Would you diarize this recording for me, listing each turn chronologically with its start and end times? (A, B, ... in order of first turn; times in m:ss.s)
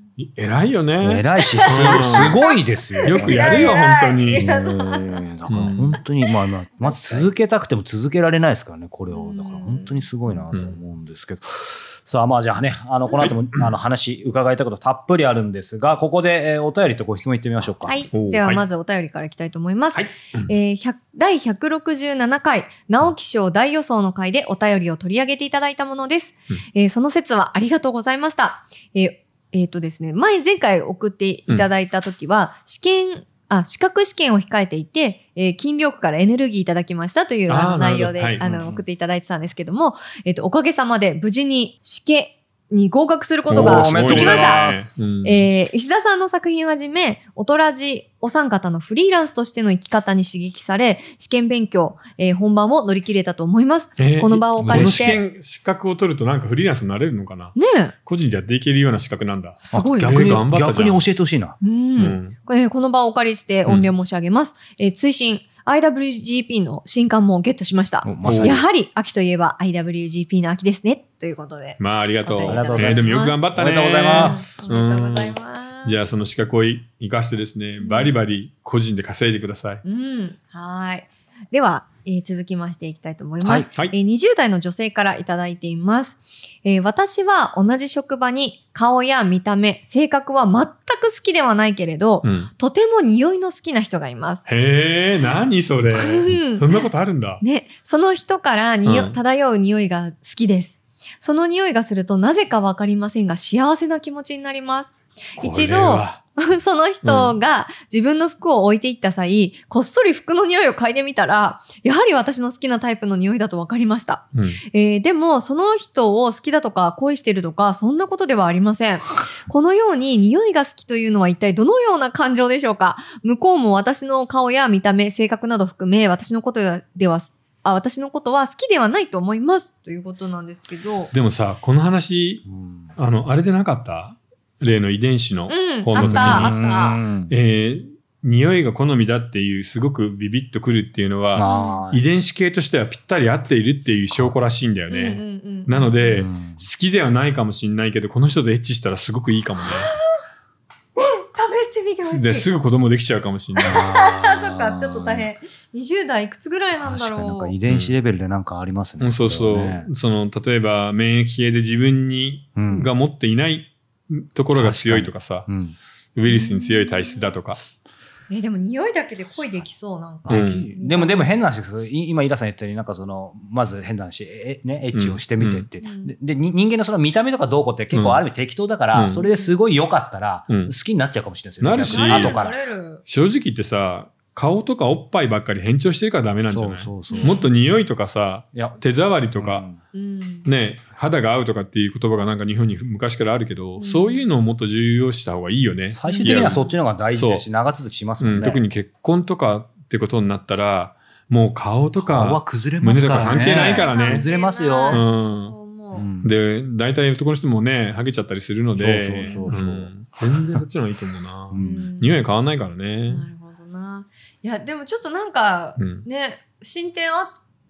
0:00.2-0:02.4 A
0:01.0-0:03.7 B
0:01.4-0:05.3 C
0:03.0-0:04.4 A
0:04.3-0:18.0 B
0:05.5-0:06.0 A
0:06.2-0:07.3 C
0:09.1-0:10.0 C
0:10.4-0:10.8 A
0:13.2-0:13.7 A
0:17.8-0:55.2 C
0:18.1-0:18.6 A
0:19.9-0:20.5 A
0:37.5-0:38.4 A
0:38.4-0:38.9 B
0:43.5-0:45.5 A
0:43.6-0:45.1 B
0:54.0-1:01.0 A
0:54.6-0:55.2 B
0:57.6-0:57.9 C
0:59.7-1:00.4 C
0:59.7-1:01.6 B
1:01.6-1:13.4 C
1:02.0-1:02.4 A
1:03.6-1:03.9 A
1:08.0-1:08.6 B
1:08.2-1:08.6 A
1:11.8-1:19.8 A
1:12.4-1:14.7 B
1:14.1-1:16.0 C
1:17.8-1:18.1 C
1:19.8-1:34.4 C
1:32.2-1:32.5 A
1:34.5-1:37.4 A
1:35.9-1:36.8 C
1:37.4-2:11.1 C
1:38.8-1:39.2 A
1:45.4-1:46.2 A
1:47.0-1:47.4 A
1:54.3-1:54.6 A
2:11.1-2:12.4 A
2:12.4-2:12.9 B
2:13.0-2:16.5 A
2:15.5-2:17.0 C
2:16.0-2:17.3 B
2:17.3-2:29.9 A
2:21.3-2:22.0 B
2:21.4-2:21.8 C
2:24.9-2:25.9 C
2:26.0-2:26.6 B
2:31.0-2:32.5 C
2:32.0-2:33.8 A
2:33.6-2:37.5 C
2:33.6-2:35.3 B
2:36.8-2:39.9 B
2:37.6-2:38.0 A
2:39.0-2:45.5 A
2:42.6-2:42.9 B
2:44.5-2:45.8 B
2:46.2-2:47.6 A
2:46.2-2:47.3 C
2:48.3-2:51.3 C
2:50.2-3:02.6 B
2:50.3-2:50.7 A
2:54.9-2:55.7 A
2:55.8-2:56.1 C
2:57.9-2:58.2 A
2:58.9-2:59.2 A
2:59.1-2:59.6 C
3:01.6-3:02.5 A
3:01.9-3:03.0 C
3:03.0-3:09.6 A
3:06.5-3:07.4 B
3:07.1-3:07.5 C
3:08.5-3:08.8 B
3:09.3-3:09.8 B
3:09.9-3:10.5 C
3:10.4-3:16.6 A
3:13.8-3:14.2 C
3:15.9-3:18.6 B
3:16.0-3:16.8 C
3:17.1-3:17.4 A
3:18.2-3:24.3 A
3:22.0-3:25.0 B
3:23.2-3:26.1 C
3:24.9-3:25.5 A
3:25.9-3:26.3 B
3:26.2-3:33.2 A
3:28.8-3:30.6 B
3:31.5-3:31.9 B
3:31.6-3:32.2 C
3:33.1-3:37.3 C
3:35.8-3:36.0 A